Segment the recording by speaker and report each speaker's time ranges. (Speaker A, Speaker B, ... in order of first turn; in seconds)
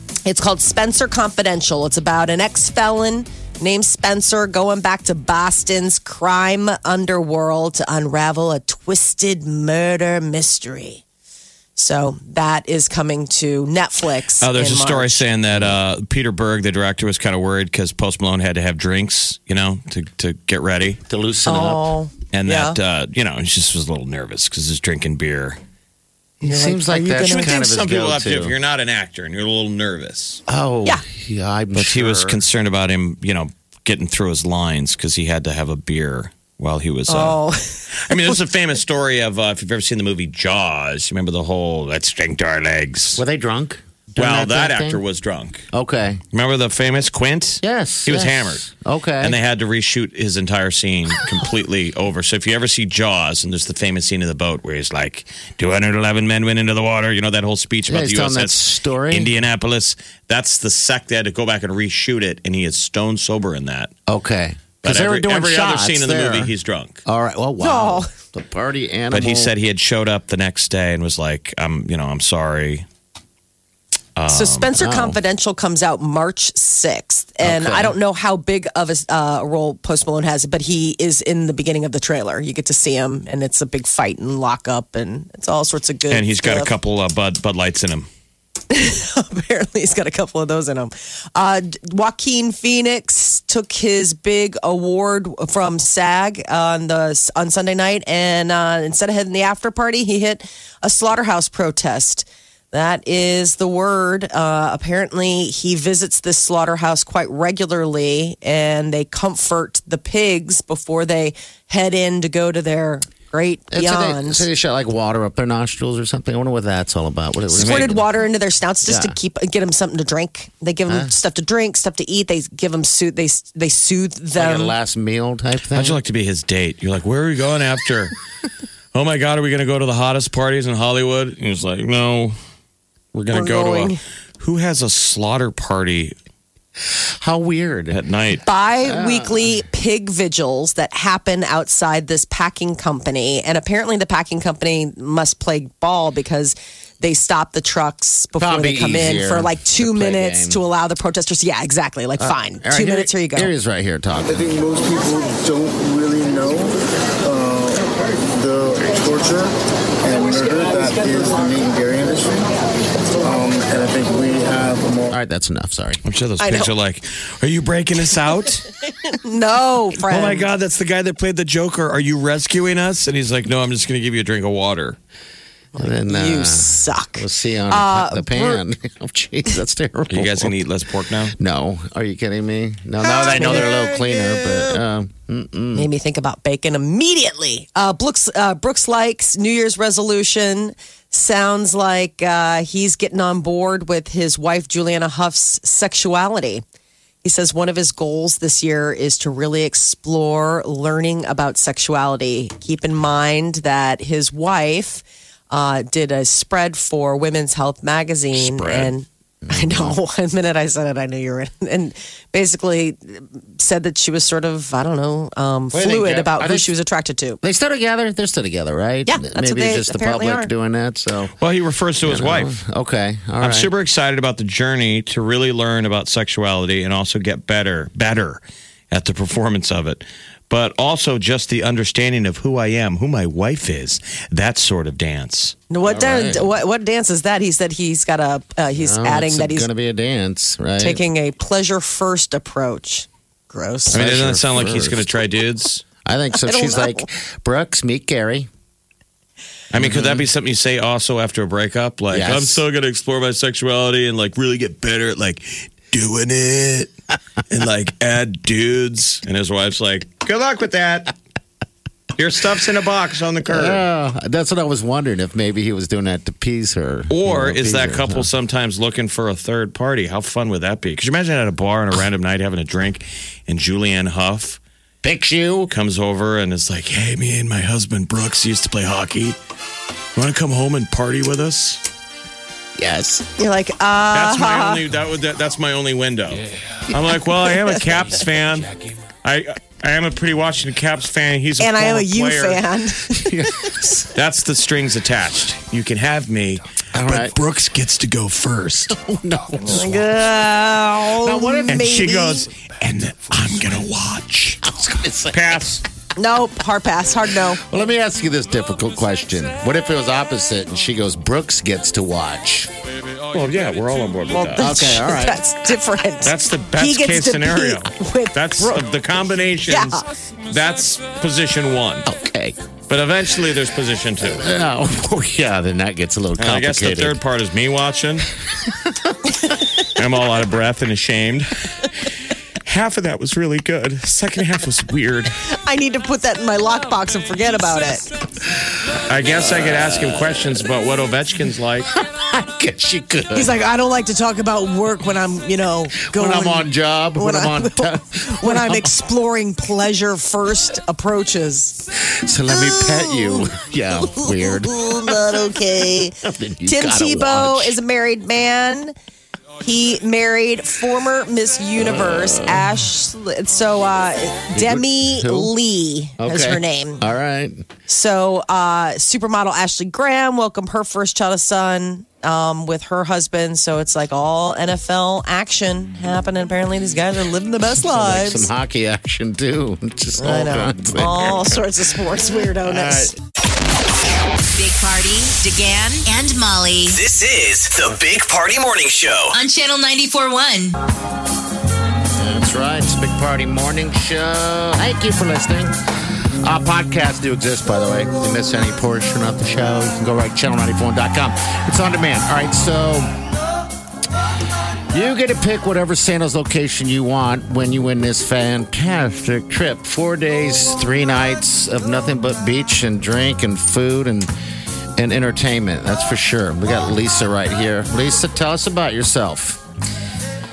Speaker A: 0.2-11.0, 11.8-15.3, 21.5-22.8, 26.4-27.6, 37.1-38.3, 67.6-68.1, 74.3-86.7, 88.7-114.4, 117.5-124.7, 133.3-134.0, 138.4-153.5, 166.4-166.7, 169.0-170.5, 175.8-178.6, 183.0-184.0, 185.8-196.6, 197.2-217.4, 219.1-220.5, 235.7-239.7, 240.8-244.0, 246.4-247.1, 283.4-284.8, 291.6-293.7, 299.6-302.5, 306.1-307.6, 314.3-318.8, 319.7-320.0, 335.6-338.0, 343.3-351.9, 352.5-353.5, 354.1-358.9, 359.6-367.0, 367.9-378.5, 380.2-383.1
Speaker B: 14.4-21.0, 22.3-25.6, 27.2-30.4, 31.7-37.4, 38.1-43.2, 44.2-45.6, 46.3-48.6, 49.2-63.9, 64.8-67.0, 69.1-72.9, 74.2-74.7, 86.1-88.1, 117.5-118.0, 125.7-128.1, 128.9-132.4, 133.1-136.1, 137.9-138.4, 166.0-168.7, 170.1-175.0, 180.1-181.3, 221.4-222.5, 223.4-235.6, 243.9-245.8, 249.7-256.9, 257.5-261.1, 262.1-263.8, 267.1-274.6, 275.7-279.4, 280.1-281.8, 284.1-292.6, 294.1-299.0, 301.7-304.6, 305.3-305.8, 313.3-314.7, 316.2-322.1, 322.9-324.5, 326.4-328.3, 329.8-331.7, 332.6-335.3, 339.1-341.9
Speaker C: 21.1-21.9, 26.4-28.5, 30.5-32.4, 43.1-45.0, 45.7-46.2, 47.6-49.4, 57.9-59.3, 64.1-66.5, 67.0-69.5, 74.8-75.2, 77.4-77.9, 113.7-118.0, 118.9-119.2, 120.9-121.1, 124.3-126.0, 136.9-138.0, 138.8-139.6, 148.4-150.6, 152.2-154.6, 165.1-166.0, 175.8-180.5, 181.4-185.9, 208.3-208.9, 209.4-210.0, 215.7-216.7, 217.4-221.3, 222.0-223.7, 235.8-236.5, 238.8-241.0, 243.9-245.1, 246.0-248.5, 249.7-250.2, 252.1-252.6, 263.5-268.3, 275.0-275.7, 282.8-283.2, 293.1-294.1, 296.9-297.4, 298.9-300.1, 301.2-301.9, 304.6-305.6, 307.6-312.7, 314.6-315.4, 322.1-322.6, 324.2-327.2, 328.7-328.9, 338.4-340.7, 341.9-343.6, 346.0-348.9, 352.0-355.2, 356.2-357.8, 361.8-362.7, 364.5-365.5, 366.2-367.6, 377.7-381.6, 382.6-383.1, 392.2-395.8, 396.4-403.1, 404.9-414.3, 415.0-419.6
Speaker D: 154.3-159.5, 160.0-162.5, 163.2-165.1
Speaker E: 384.5-387.0, 389.3-390.8
Speaker F: 386.9-389.3